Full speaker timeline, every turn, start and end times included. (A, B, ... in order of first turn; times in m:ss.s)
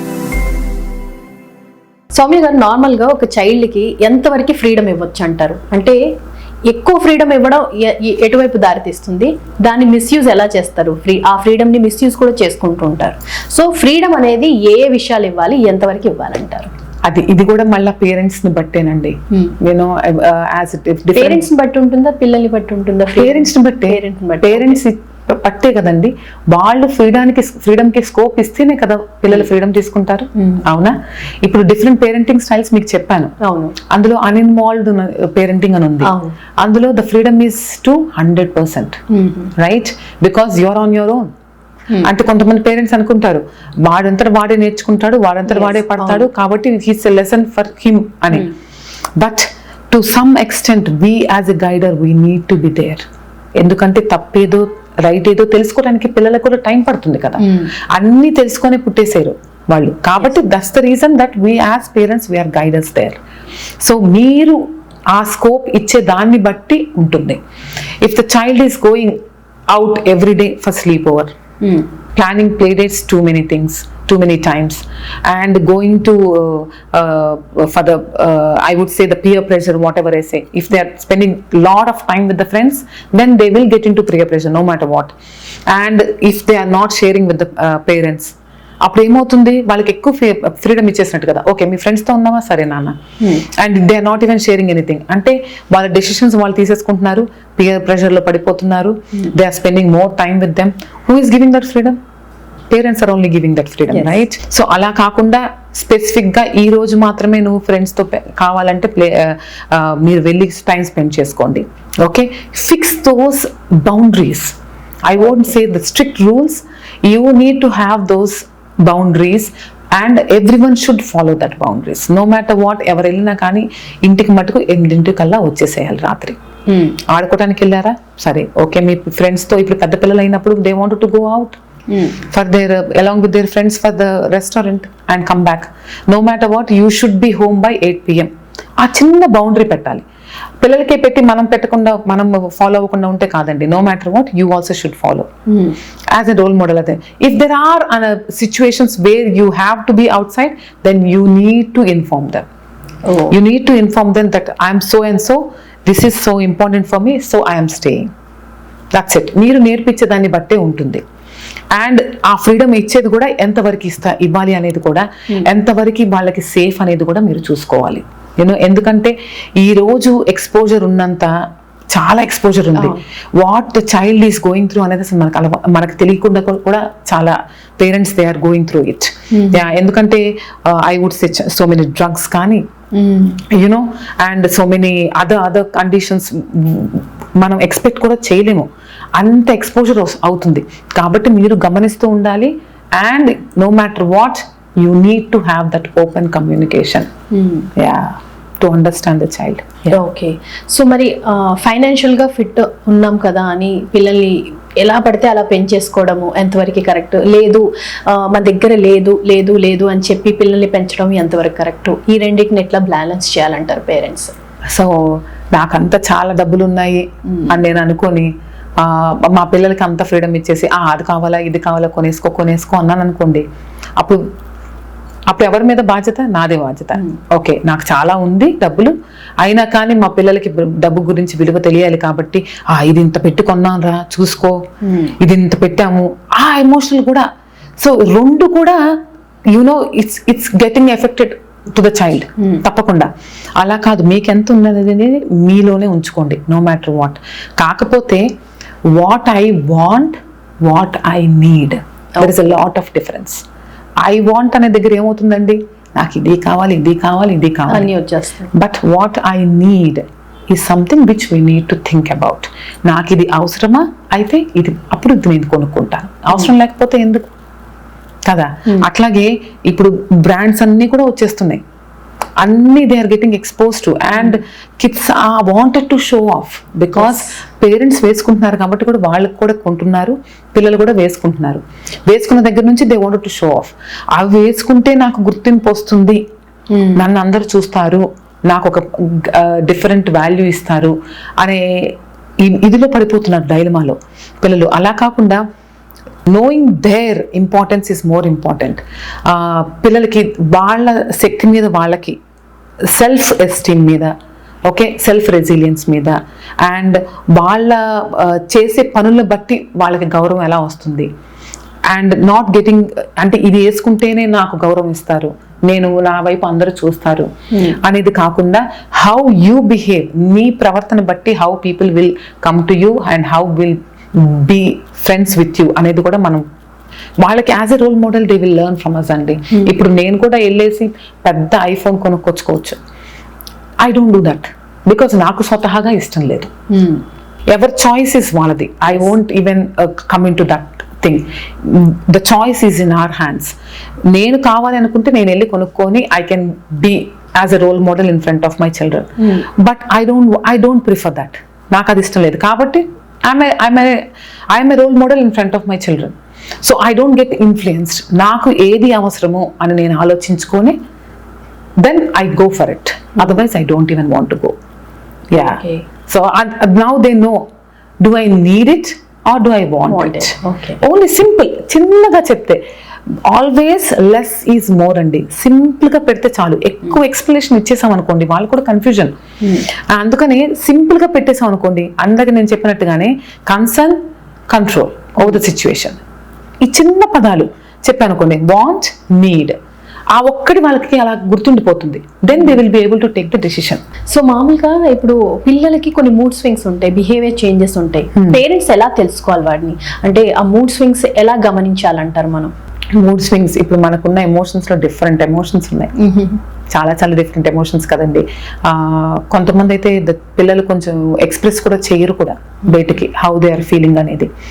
0:02.2-0:06.0 A
0:06.7-0:16.7 A
0:17.1-0:21.5 B
0:21.1-0:24.8 A
0:23.2-0:33.4 B
0:30.4-0:30.6 A
0:33.4-0:33.8 A
0:33.9-0:39.0 B
0:36.0-0:36.3 A
0:39.1-0:39.5 A
0:39.6-0:41.3 B
0:42.0-0:48.5 B
0:45.5-0:46.3 A
0:49.2-0:53.0 B
0:53.6-1:03.2 B
0:57.4-0:57.7 A
1:00.2-1:00.5 A
1:03.8-1:04.6 B
1:05.1-1:07.4 B
1:08.0-1:09.2 B
1:09.7-1:11.3 B
1:11.6-1:11.9 A
1:12.2-1:25.2 B
1:25.7-1:28.3 B
1:28.8-1:42.0 B
1:42.7-2:06.4 B
1:43.9-1:44.2 A
2:06.7-2:07.0 A
2:07.0-2:11.6 B
2:11.9-2:12.2 A
2:12.3-2:20.0 B
2:20.6-2:25.3 B
2:25.5-2:25.8 A
2:26.1-2:32.4 B
2:33.0-2:33.4 A
2:33.3-2:38.1 B
2:39.0-2:41.0 B
2:41.7-2:51.3 B
2:51.9-3:02.6 B
2:52.8-2:53.0 A
2:59.3-2:59.6 A
3:02.9-3:03.4 A
3:03.5-3:17.1 B
3:17.3-3:17.7 A
3:17.8-3:20.0 B
3:19.9-3:34.3 A
3:34.7-3:43.4 B
3:37.3-3:37.6 A
3:45.3-3:54.6 B
3:46.9-3:47.2 A
3:54.8-3:55.2 A
3:55.2-3:57.3 B
3:57.8-3:58.8 B
3:59.5-4:08.3 B
4:08.9-4:13.4 B
4:12.2-4:12.6 A
4:14.0-4:17.9 B
4:17.7-4:18.5 A
4:18.5-4:27.2 B
4:28.3-4:31.6 B
4:32.4-4:46.2 B
4:37.0-4:37.3 A
4:46.7-4:47.0 A
4:47.0-4:55.4 B
4:56.3-5:02.2 B
5:02.9-5:04.1 B
5:04.7-5:11.1 B
5:11.9-5:17.3 B
5:17.8-5:26.4 B
5:27.2-5:32.8 B
5:33.8-5:36.5 B
5:36.7-5:37.0 A
5:37.5-5:43.6 B
5:44.1-6:00.8 B
5:49.2-5:49.4 A
6:01.8-6:04.5 B
6:05.3-6:07.4 B
6:05.4-6:05.8 A
6:08.0-6:12.6 B
6:09.9-6:10.8 A
6:13.3-6:19.1 B
6:19.9-6:24.0 B
6:24.5-6:26.0 B
6:26.6-6:29.6 B
6:30.2-6:33.8 B
6:34.1-6:42.5 A
6:38.2-6:38.4 B
6:43.0-6:45.9 B
6:46.0-6:46.4 A
6:46.7-6:54.3 B